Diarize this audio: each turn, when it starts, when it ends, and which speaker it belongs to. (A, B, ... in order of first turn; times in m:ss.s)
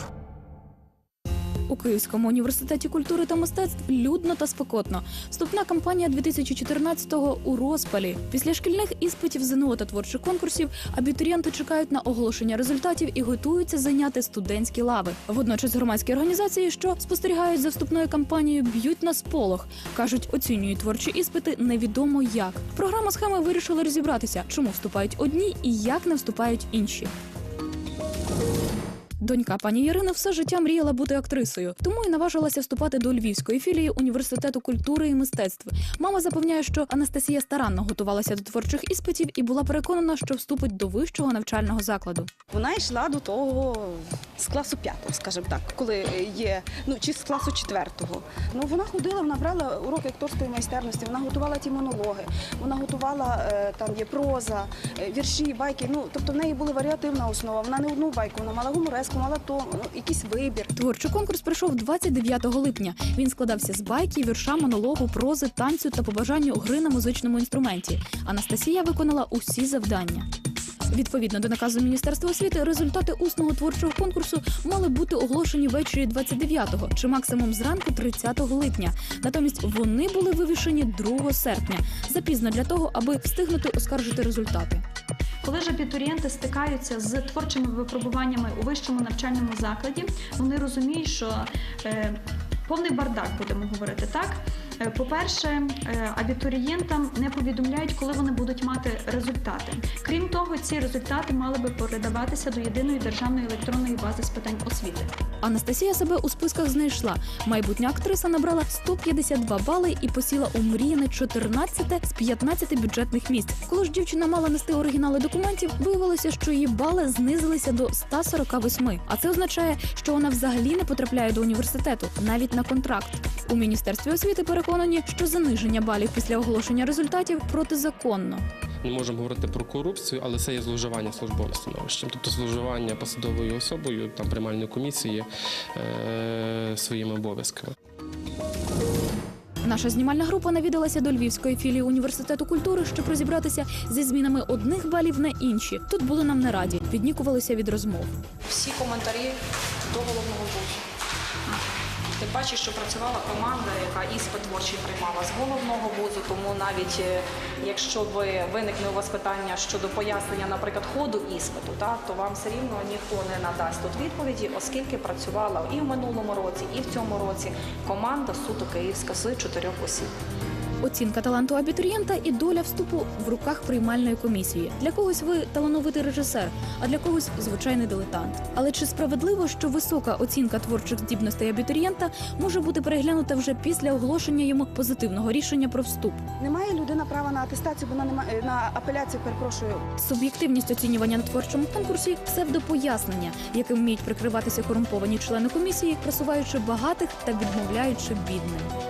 0:01.7-0:27.1 A
0:29.2-0:42.3 A
0:42.5-1:00.7 B
1:00.8-1:10.3 A
1:10.9-1:24.8 A
1:25.4-1:32.2 C
1:32.7-1:45.1 C
1:45.4-2:08.4 A
2:08.8-2:17.7 D
2:19.6-2:28.1 A
2:28.5-2:29.4 E
2:29.9-2:30.8 E
2:32.2-2:50.1 E
2:50.8-3:06.2 A
3:06.4-3:09.8 B
3:10.0-3:18.7 A